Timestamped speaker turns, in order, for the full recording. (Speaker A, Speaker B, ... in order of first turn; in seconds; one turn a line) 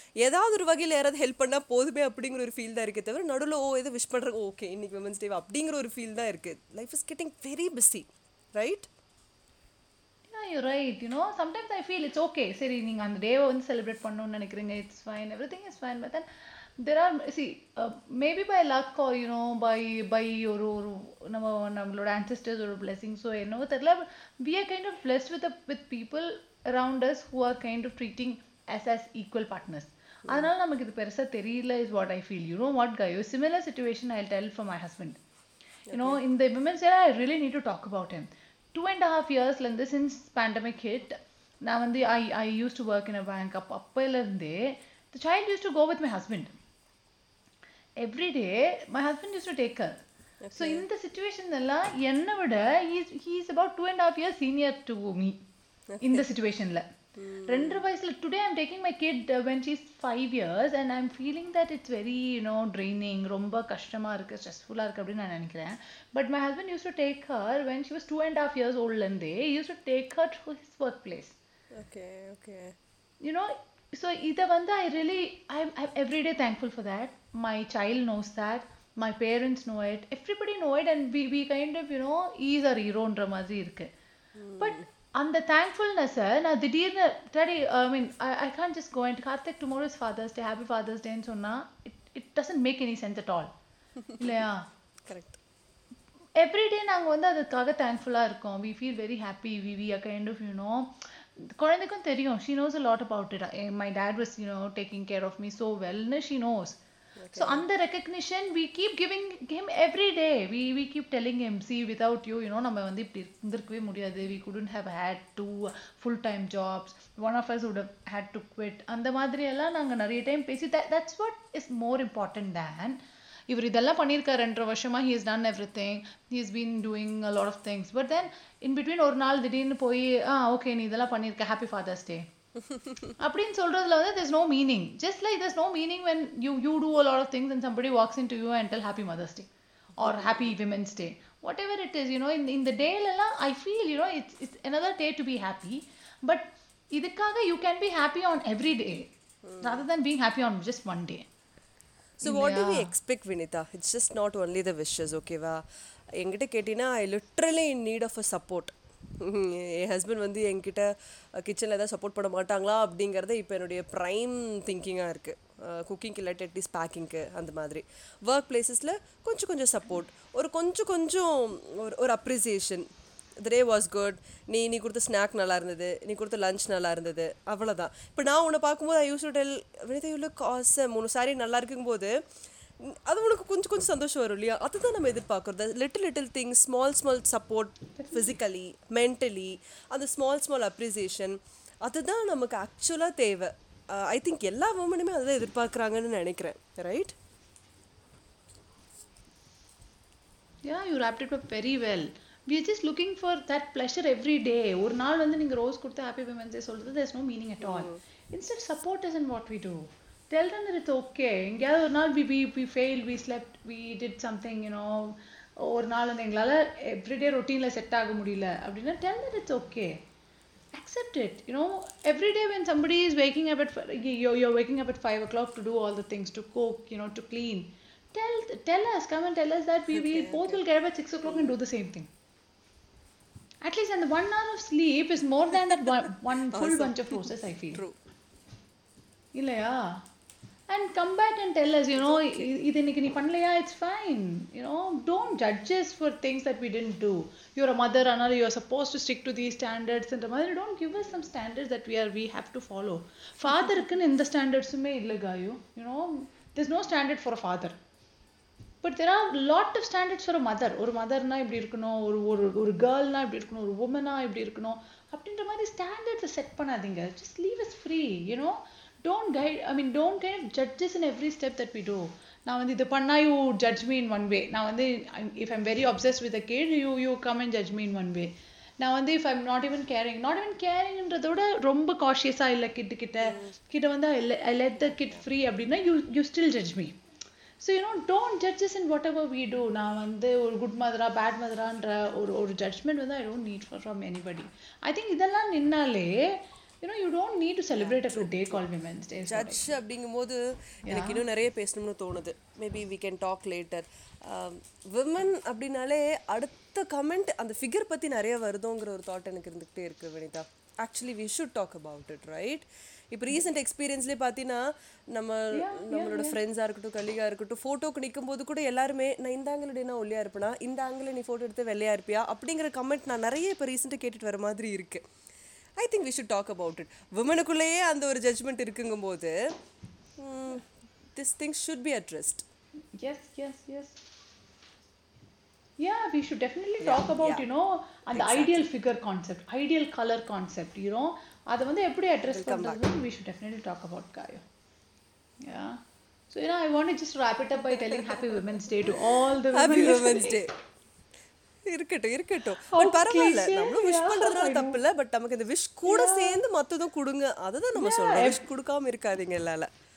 Speaker A: 0.2-8.9
Speaker B: 10.3-35.2
Speaker A: 35.9-36.2
Speaker B: 35.9-46.5
Speaker B: 48.0-50.0
Speaker A: 50.4-50.8
Speaker B: 50.5-55.4
Speaker A: 55.9-56.2
Speaker B: 56.0-56.9
Speaker A: 57.1-57.8
Speaker B: 57.5-71.3
Speaker A: 71.7-72.7
Speaker B: 73.2-83.9
Speaker A: 84.3-84.8
Speaker B: 84.6-93.5
Speaker A: 94.1-94.4
Speaker B: 94.2-94.7
Speaker A: 95.1-95.4
Speaker B: 96.4-106.8
Speaker A: 107.2-107.6
Speaker B: 107.3-123.0
Speaker B: 123.5-132.2
Speaker B: 133.2-151.3
Speaker A: 140.0-140.5
Speaker A: 149.4-149.8
Speaker A: 152.2-155.6
Speaker B: 152.2-152.9
Speaker A: 156.2-160.9
Speaker A: 161.4-172.8
Speaker A: 173.4-182.1
Speaker A: 183.1-197.1
Speaker B: 200.6-220.0
Speaker A: 207.6-208.0
Speaker B: 220.7-232.1
Speaker A: 229.9-230.6
Speaker A: 231.2-231.5
Speaker B: 233.6-237.8
Speaker A: 236.5-237.9
Speaker B: 239.3-240.0
Speaker B: 240.7-257.8
Speaker A: 242.0-242.5
Speaker B: 258.8-286.9
Speaker A: 283.2-283.5
Speaker B: 287.6-299.7
Speaker A: 297.7-298.6
Speaker A: 299.2-314.6
Speaker B: 300.9-301.2
Speaker A: 315.1-325.0
Speaker B: 315.5-316.4
Speaker A: 325.8-329.3
Speaker A: 330.2-332.4
Speaker B: 333.0-334.0
Speaker B: 335.8-344.4
Speaker A: 336.8-337.4
Speaker A: 338.1-338.7
Speaker A: 342.3-342.8
Speaker B: 345.4-345.8
Speaker B: 346.3-350.4
Speaker A: 349.5-350.5
Speaker A: 351.7-359.7
Speaker B: 352.7-354.8
Speaker B: 355.9-356.4
Speaker B: 357.8-358.4